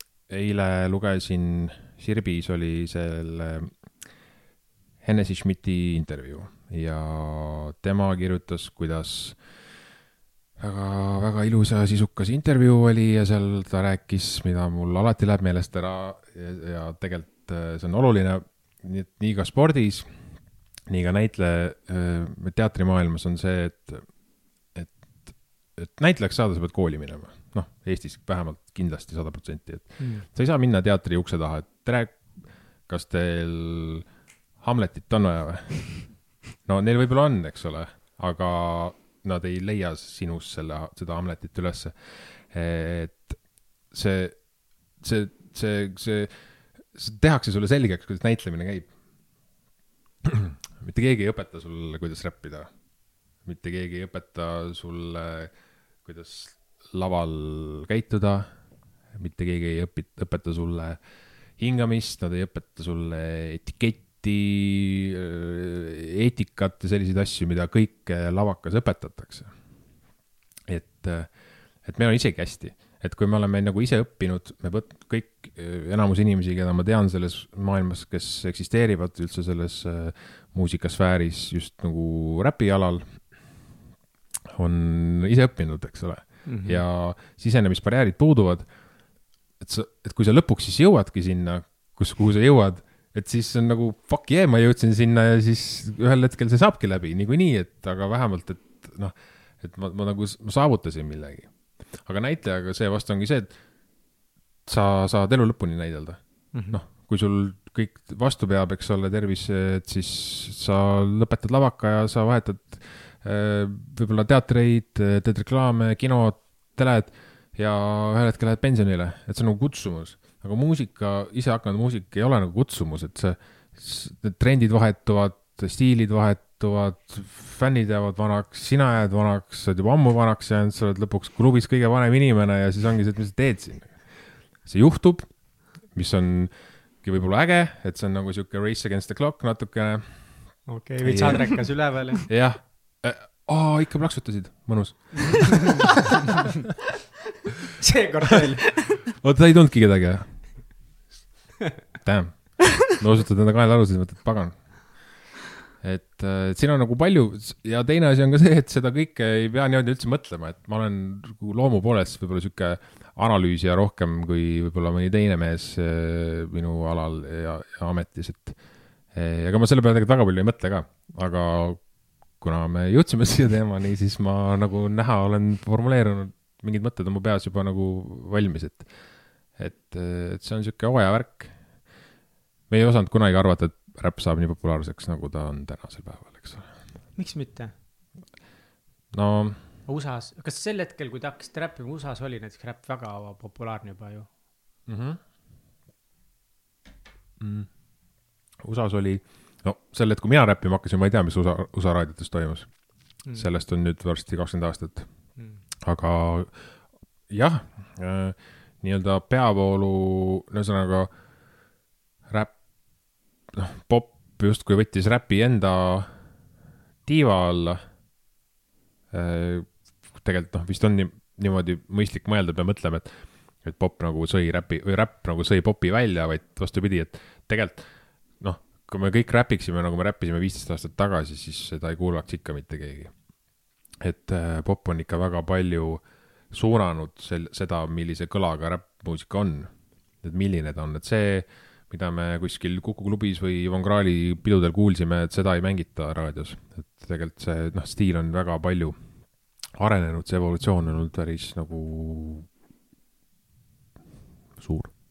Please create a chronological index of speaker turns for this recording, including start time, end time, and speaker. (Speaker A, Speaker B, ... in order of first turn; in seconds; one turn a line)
Speaker A: 0.3-4.0
Speaker A: 5.0-9.5
Speaker A: 10.6-48.9
Speaker B: 30.0-30.3
Speaker A: 50.2-52.8
Speaker A: 53.4-58.6
Speaker A: 59.1-61.0
Speaker A: 61.6-69.5
Speaker A: 70.7-83.7
Speaker A: 84.5-88.7
Speaker B: 86.5-86.8
Speaker A: 89.6-103.6
Speaker A: 104.7-141.8
Speaker B: 106.5-106.8
Speaker B: 140.7-142.2
Speaker A: 142.3-145.9
Speaker B: 145.2-145.5
Speaker B: 147.8-148.9
Speaker A: 148.8-150.8
Speaker A: 152.0-155.2
Speaker A: 155.8-181.9
Speaker A: 182.7-186.7
Speaker B: 187.2-187.7
Speaker A: 189.1-189.6
Speaker B: 189.9-194.3
Speaker A: 194.9-195.2
Speaker A: 197.4-197.7
Speaker A: 198.6-205.3
Speaker B: 203.2-203.5
Speaker A: 205.8-211.1
Speaker A: 212.3-216.2
Speaker A: 217.1-217.8
Speaker A: 219.1-233.2
Speaker A: 234.0-252.5
Speaker A: 254.6-254.9